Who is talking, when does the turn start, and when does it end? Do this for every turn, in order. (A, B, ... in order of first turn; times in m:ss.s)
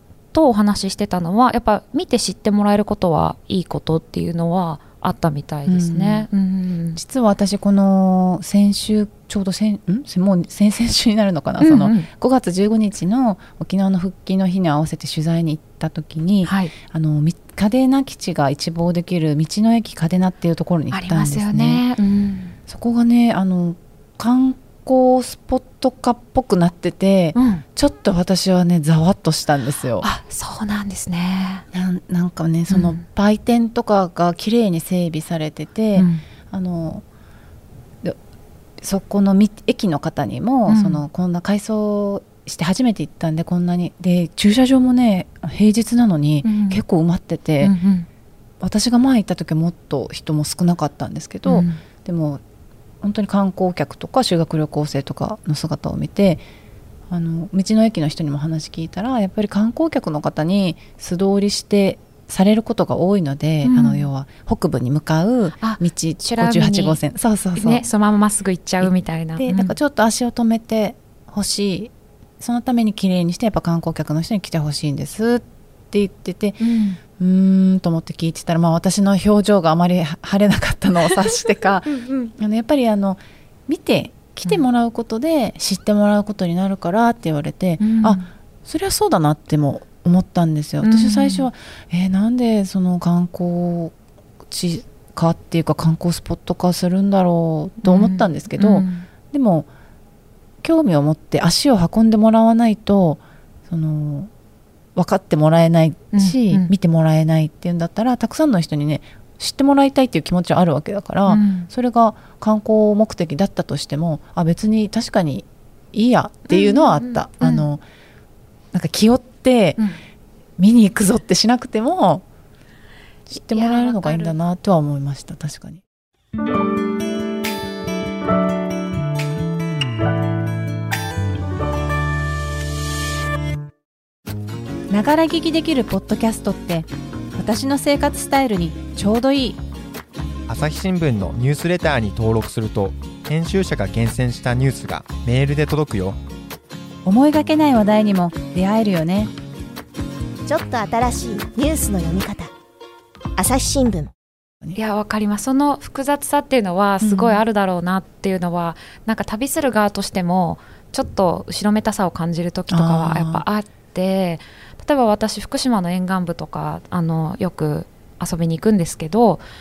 0:00.3-0:07.0 A
0:05.6-0:06.3 B
0:07.0-0:21.8 B
0:11.6-0:12.1 A
0:16.4-0:16.7 A
0:20.9-0:22.6 A
0:22.7-0:30.1 B
0:27.3-0:27.6 A
0:30.0-0:31.6 A
0:31.7-0:37.0 B
0:32.7-0:33.0 A
0:35.9-0:36.2 A
0:38.8-0:47.7 B
0:40.7-0:41.0 A
0:46.4-0:46.8 A
0:47.6-0:48.1 A
0:48.6-0:52.4 B
0:51.4-0:51.8 A
0:53.0-0:56.4 B
0:57.1-1:07.8 B
1:03.6-1:04.1 A
1:05.6-1:07.0 A
1:07.5-1:09.7 A
1:08.8-1:33.9 B
1:16.6-1:17.0 A
1:21.9-1:22.3 A
1:27.8-1:28.3 A
1:30.8-1:31.5 A
1:34.5-1:39.7 B
1:37.8-1:39.1 A
1:40.6-1:44.3 B
1:44.9-1:57.8 B
1:46.1-1:46.7 A
1:51.3-1:51.7 A
1:56.5-1:57.7 A
1:58.7-1:59.8 B
2:00.6-2:02.2 B
2:03.3-2:05.8 B
2:03.4-2:04.3 A
2:14.9-2:19.6 B
2:20.5-2:26.2 C
2:27.0-2:29.3 B
2:30.4-2:32.5 D
2:33.4-2:34.1 D
2:34.7-2:49.4 A
2:37.0-2:37.4 B
2:42.7-2:43.4 B